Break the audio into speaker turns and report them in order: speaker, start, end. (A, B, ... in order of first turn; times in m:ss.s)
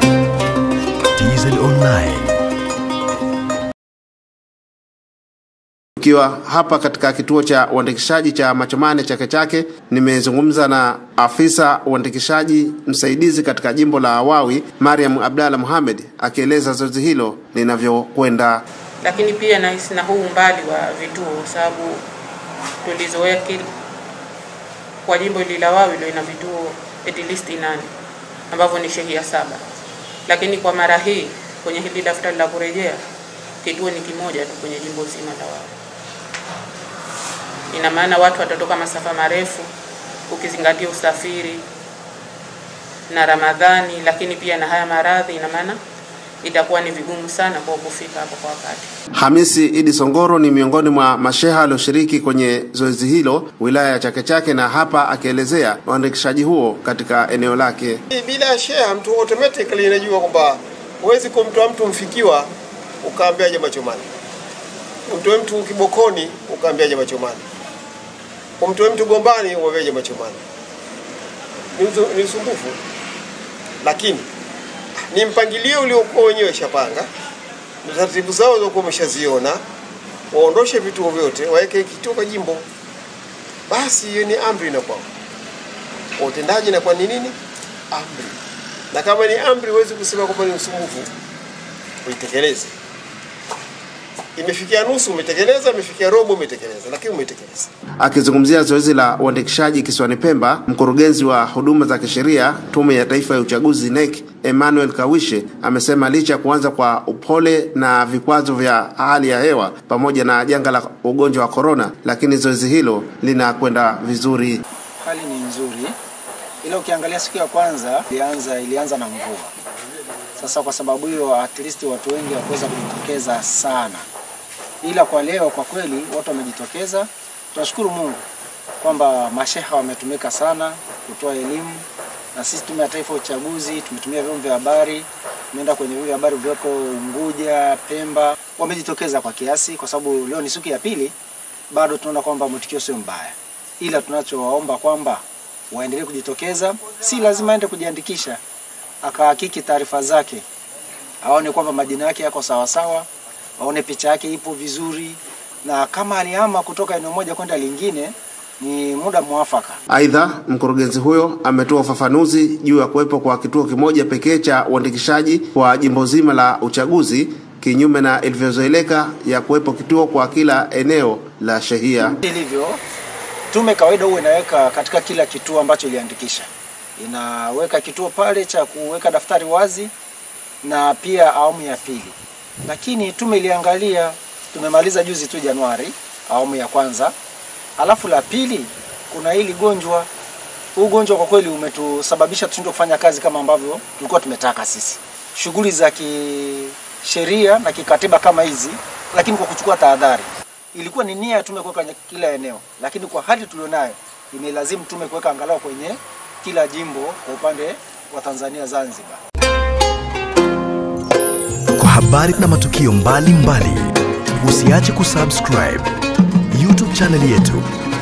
0:01.2-0:02.4 A
0:06.0-0:18.6 B
0:19.0-0:22.0 C
0:22.8-0:23.7 C
0:25.0-0:27.9 C
0:28.5-0:29.6 C
0:30.3-0:33.0 C
0:33.6-0:35.7 C
0:37.7-0:39.7 C
0:40.3-0:41.6 C
0:43.1-0:45.8 C
0:46.4-0:48.9 C
0:49.2-0:58.0 B
0:58.1-1:02.5 D
1:03.0-1:04.1 D
1:05.1-1:07.4 D
1:08.6-1:10.4 D
1:11.8-1:12.8 D
1:13.8-1:14.3 D
1:15.1-1:17.1 D
1:17.8-1:19.6 D
1:20.3-1:22.6 D
1:23.7-1:25.1 D
1:26.2-1:27.4 D
1:27.9-1:28.4 D
1:28.9-1:31.1 D
1:32.0-1:32.7 D
1:34.4-1:37.7 D
1:38.0-1:54.6 B
1:55.0-1:56.0 E
1:56.6-1:59.5 E
2:00.4-2:04.1 E
2:04.8-2:08.2 E
2:08.8-2:21.1 E
2:21.7-2:28.4 E
2:29.0-2:30.4 E
2:31.2-2:39.8 E
2:39.9-2:52.2 B
2:52.2-2:52.8 E
2:53.5-2:59.9 E
3:00.6-3:07.1 E
3:07.8-3:10.1 E
3:10.8-3:29.2 E
3:31.8-3:35.9 A
3:36.5-3:37.7 A